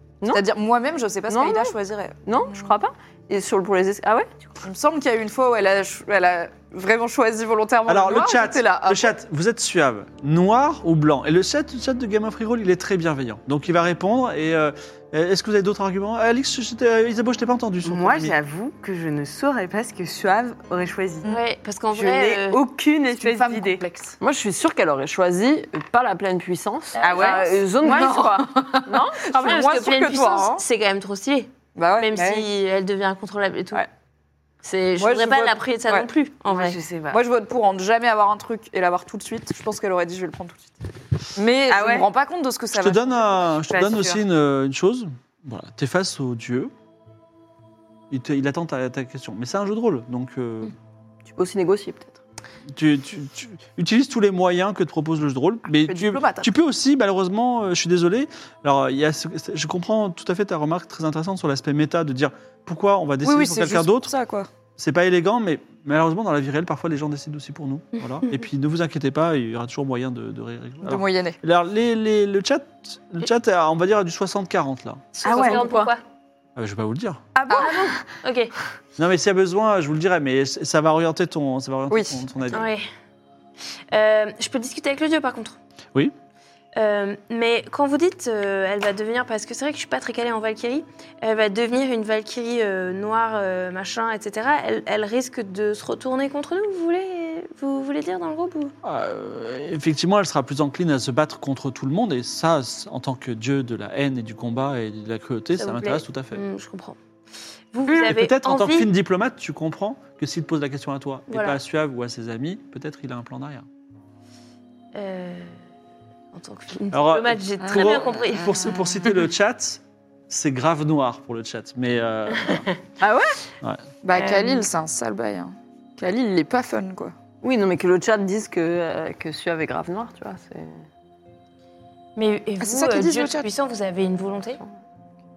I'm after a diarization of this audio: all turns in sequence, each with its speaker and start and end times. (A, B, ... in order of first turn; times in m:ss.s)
0:00.3-0:02.7 A
0:01.3-0:04.5 B
0:04.6-0:09.1 A
0:07.9-0:18.3 C
0:17.8-0:21.3 D
0:21.2-0:22.6 E
0:21.9-0:23.8 D
0:23.1-0:24.2 A
0:24.2-0:29.7 B
0:27.0-0:28.4 D
0:27.0-0:27.4 E
0:27.8-0:30.6 A
0:29.3-0:33.8 E
0:31.7-0:32.4 A
0:34.6-0:36.8 E
0:35.0-0:36.1 A
0:36.5-0:37.2 D
0:37.1-0:43.2 A
0:41.7-0:42.1 D
0:42.7-0:46.7 C
0:43.7-0:44.2 D
0:48.1-0:50.7 C
0:51.3-0:52.2 B
0:52.7-1:04.1 C
0:55.7-0:56.5 A
1:03.2-1:04.5 A
1:04.8-1:15.1 C
1:08.0-1:08.4 E
1:10.8-1:11.4 A
1:15.2-1:16.0 E
1:15.3-1:15.8 A
1:15.3-1:15.8 D
1:15.3-1:15.6 B
1:16.6-1:17.3 C
1:17.3-1:18.0 A
1:17.5-1:18.5 E
1:19.0-1:22.6 C
1:21.9-1:22.2 A
1:22.5-1:22.9 E
1:23.9-1:25.6 E
1:26.7-1:38.7 E
1:38.8-1:46.4 C
1:45.6-1:47.0 E
1:47.7-1:48.9 E
1:48.0-1:53.6 C
1:51.3-1:51.6 E
1:54.9-1:55.6 E
1:56.3-1:58.7 E
1:56.9-2:02.7 C
2:03.0-2:03.4 B
2:03.6-2:03.8 C
2:04.0-2:07.1 A
2:04.1-2:04.7 E
2:07.4-2:10.8 B
2:12.2-2:14.6 E
2:12.6-2:13.5 A